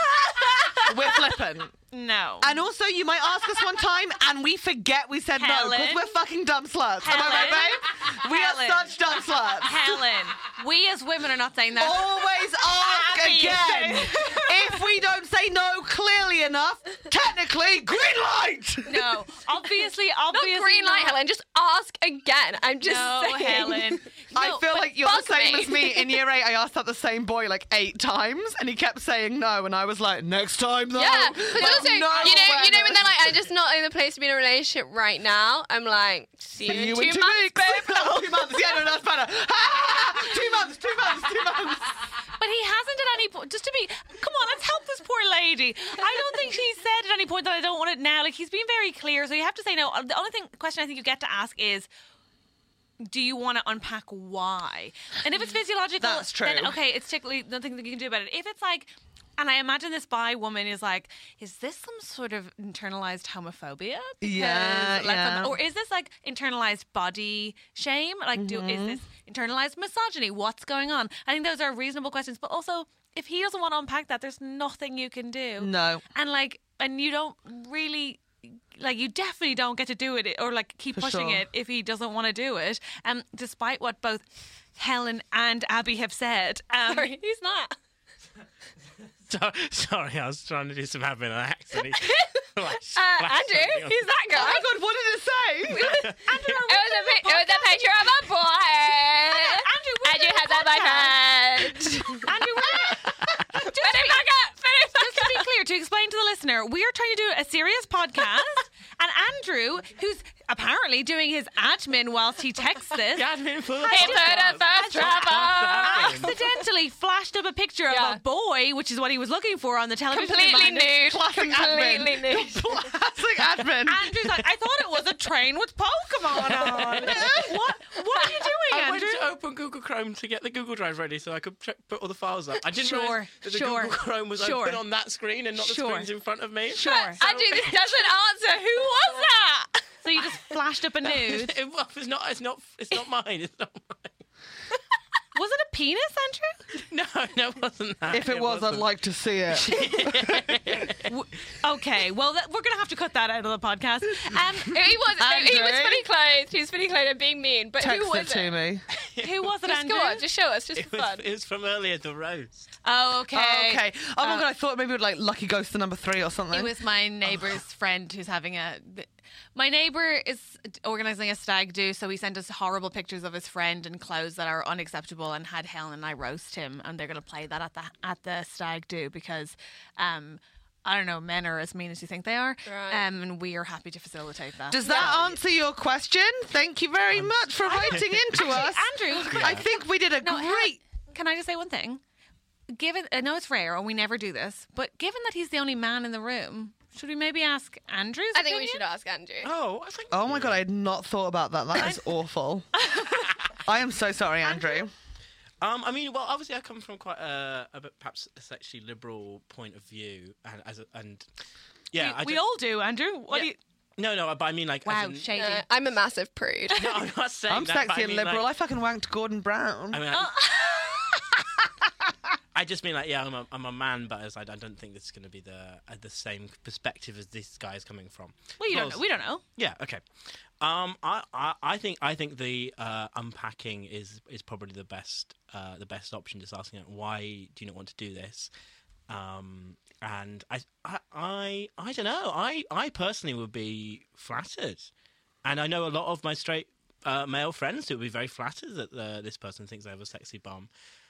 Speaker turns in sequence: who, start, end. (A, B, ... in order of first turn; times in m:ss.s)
0:00.3-0:01.2 A
0:00.8-0:01.7 B
0:01.9-0:02.6 A
0:02.4-0:10.0 B
0:05.3-0:06.0 A
0:07.0-0:09.0 A
0:09.6-0:14.8 A
0:11.8-0:19.0 B
0:18.8-0:21.2 A
0:20.3-0:24.0 C
0:22.8-0:24.8 A
0:24.3-0:33.3 B
0:24.7-0:26.2 C
0:30.9-0:38.8 C
0:31.5-0:32.6 A
0:36.6-0:41.9 B
0:42.4-0:51.9 A
0:53.0-1:24.2 A
0:56.0-0:56.8 B
1:04.2-1:05.5 B
1:08.3-1:09.0 B
1:15.6-1:16.0 B
1:20.9-1:21.4 B
1:24.8-1:27.1 A
1:26.9-1:27.7 C
1:29.3-1:34.0 D
1:32.0-1:32.3 C
1:32.9-1:34.8 C
1:34.3-1:35.9 B
1:35.7-1:42.3 C
1:35.8-1:36.1 D
1:36.2-1:38.3 A
1:39.3-1:44.2 A
1:43.6-1:45.5 C
1:45.0-1:53.3 A
1:53.1-1:56.3 D
1:53.8-1:56.4 C
1:53.9-1:54.4 A
1:54.9-2:00.9 A
1:57.9-1:58.2 C
2:00.1-2:02.8 C
2:01.0-2:04.1 B
2:03.8-2:09.2 A
2:07.0-2:07.5 C
2:08.7-2:17.7 D
2:12.8-2:14.8 A
2:15.6-2:16.1 A
2:16.7-2:17.2 A
2:16.8-2:19.9 C
2:20.0-2:21.5 A
2:21.3-2:24.2 D
2:25.3-2:26.6 A
2:26.9-2:28.9 D
2:28.1-2:30.3 B
2:29.5-2:31.1 D
2:31.0-2:34.8 A
2:34.7-2:38.6 C
2:35.2-2:36.0 B
2:37.8-2:38.8 B
2:39.2-2:40.2 A
2:39.6-2:41.2 C
2:40.8-2:42.6 D
2:42.8-2:44.4 A
2:43.3-2:46.7 B
2:46.5-3:05.4 A
3:02.6-3:03.0 C
3:04.7-3:10.8 B
3:07.1-3:08.6 D
3:07.6-3:12.0 A
3:09.3-3:09.6 D
3:12.7-3:18.8 A
3:18.3-3:19.5 C
3:19.4-3:20.6 D
3:20.1-3:22.7 B
3:21.8-3:22.0 A
3:22.8-3:23.2 A
3:23.6-3:24.9 B
3:24.4-3:24.8 C
3:25.6-3:31.2 D
3:31.9-3:32.4 D
3:31.9-3:33.6 A
3:33.3-3:35.3 D
3:34.8-3:35.6 A
3:35.4-3:36.9 C
3:36.7-3:38.5 D
3:37.5-3:40.0 B
3:39.9-3:40.4 D
3:40.1-3:41.4 A
3:42.5-3:49.0 D
3:48.6-3:49.4 A
3:49.6-3:50.0 D
3:50.6-3:58.5 D
3:59.1-4:04.9 D
4:05.4-4:10.7 D